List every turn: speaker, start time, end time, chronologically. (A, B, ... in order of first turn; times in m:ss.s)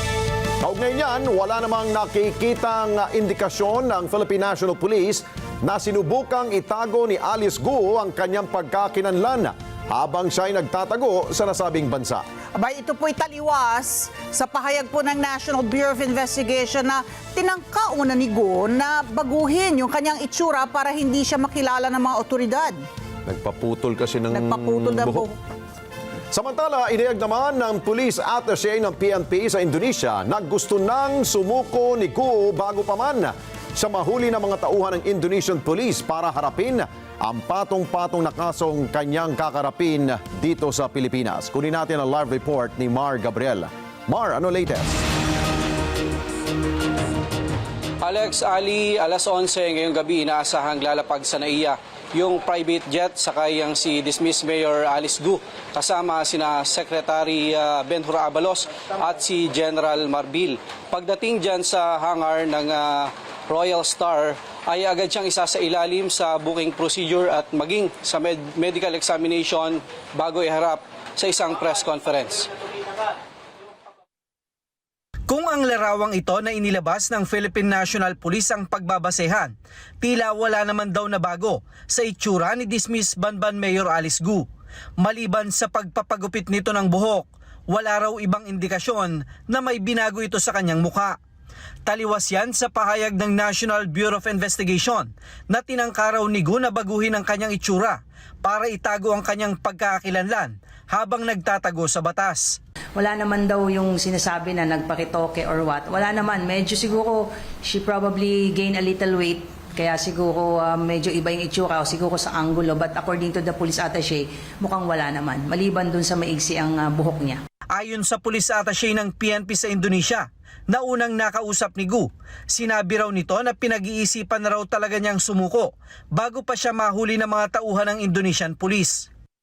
0:00.6-0:12.2 A
0:12.5-0:22.9 B
0:23.2-0:25.3 A
0:24.3-0:25.4 B
0:26.3-0:45.0 A
0:48.0-1:12.5 C
1:15.3-1:24.5 D
1:25.0-1:31.2 D
1:31.8-1:42.6 D
1:43.0-1:57.4 E
1:57.7-2:09.1 D